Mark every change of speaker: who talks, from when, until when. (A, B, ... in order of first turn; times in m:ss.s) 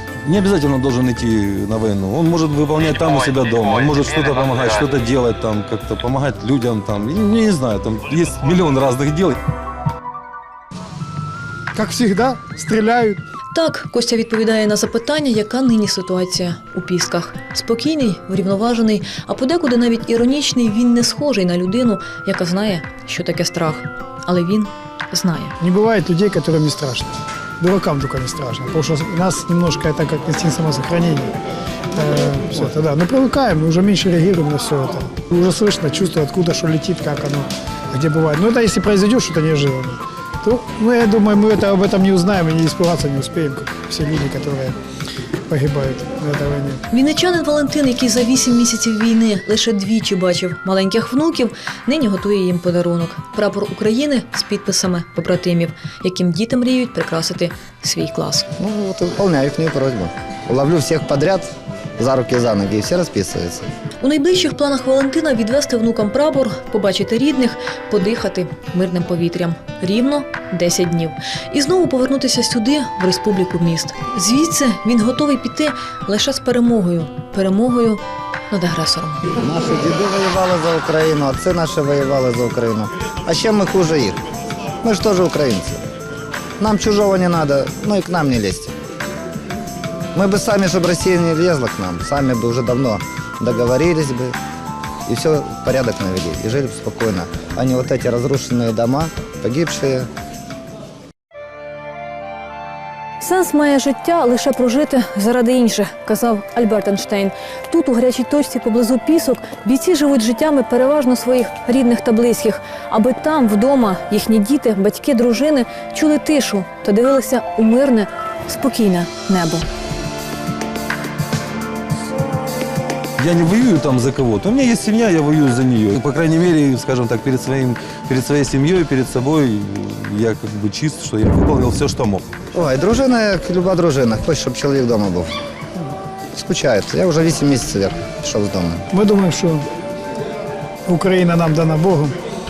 0:00.2-0:09.4 A
0:11.7-0:13.2 B
0:13.5-0:25.6 C
0:25.6-0:31.3 B
0:31.9-0:44.8 B
0:45.5-0:46.8 B
0:46.9-0:58.5 C
0:58.6-1:01.5 D
1:02.0-1:03.6 D
1:04.0-1:19.2 C
1:19.4-1:24.2 D
1:24.8-1:25.8 D
1:26.6-1:28.7 D
1:30.1-1:34.4 D
1:35.0-1:40.1 D
1:43.2-1:59.6 C
2:03.2-2:12.2 A
2:12.5-2:15.3 D
2:16.3-2:18.8 D
2:18.9-2:19.7 B
2:20.9-2:22.2 B